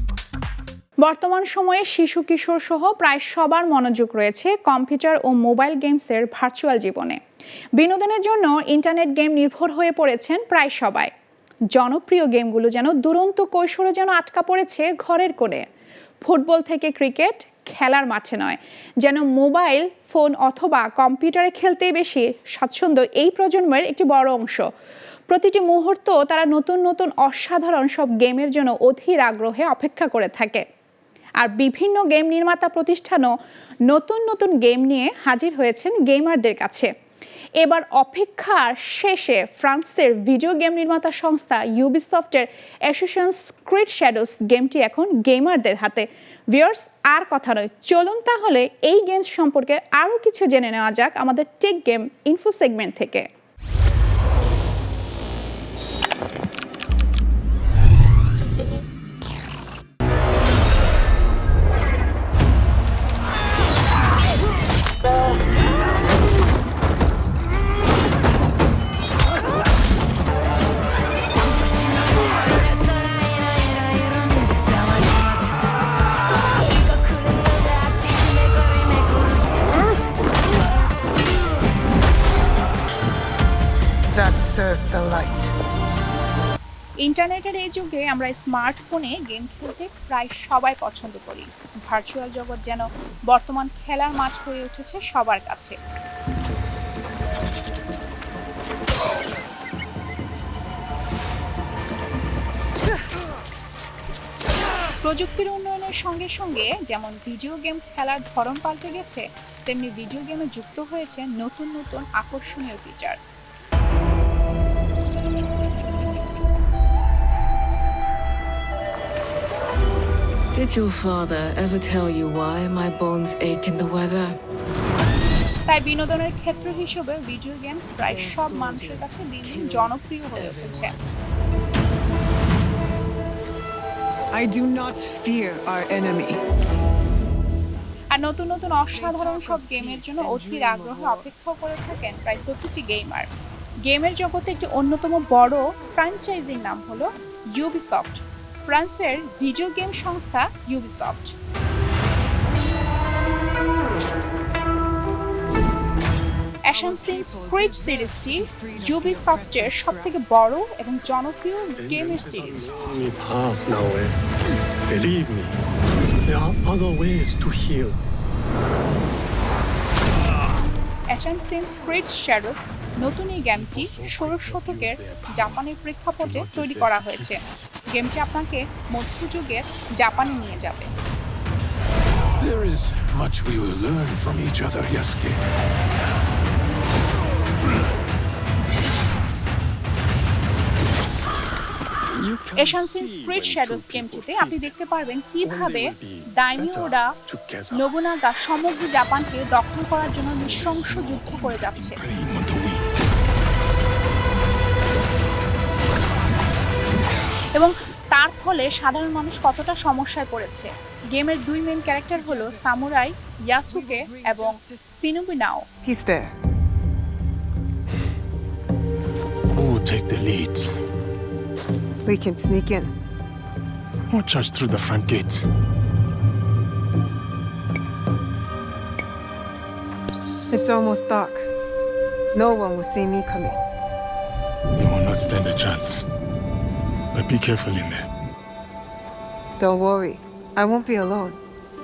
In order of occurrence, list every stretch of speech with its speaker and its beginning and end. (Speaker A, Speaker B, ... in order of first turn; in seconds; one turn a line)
Speaker A: 1.0-7.2
Speaker A: 7.8-11.1
Speaker A: 11.7-15.6
Speaker A: 16.3-24.7
Speaker A: 25.3-30.6
Speaker A: 31.4-33.3
Speaker A: 33.9-36.9
Speaker A: 37.6-53.3
Speaker B: 84.1-85.5
Speaker A: 87.0-95.8
Speaker A: 105.0-113.2
Speaker C: 120.5-124.4
Speaker A: 125.7-130.9
Speaker B: 128.2-129.9
Speaker B: 134.3-136.4
Speaker A: 138.1-143.3
Speaker B: 138.9-141.3
Speaker A: 143.9-151.3
Speaker A: 156.7-162.8
Speaker B: 156.7-160.2
Speaker D: 161.8-164.2
Speaker D: 164.9-165.6
Speaker D: 166.2-168.0
Speaker A: 171.1-180.9
Speaker E: 173.5-175.7
Speaker E: 176.2-177.7
Speaker F: 182.4-185.4
Speaker D: 192.2-194.7
Speaker A: 192.6-197.1
Speaker D: 195.4-197.9
Speaker A: 197.7-202.0
Speaker E: 200.4-202.8
Speaker A: 207.6-215.7
Speaker B: 213.7-214.8
Speaker B: 215.8-216.3
Speaker E: 219.5-220.7
Speaker B: 222.1-222.9
Speaker E: 224.1-225.5
Speaker B: 230.5-231.5
Speaker B: 232.3-233.6
Speaker E: 234.8-236.1
Speaker E: 237.1-238.1
Speaker B: 239.6-241.4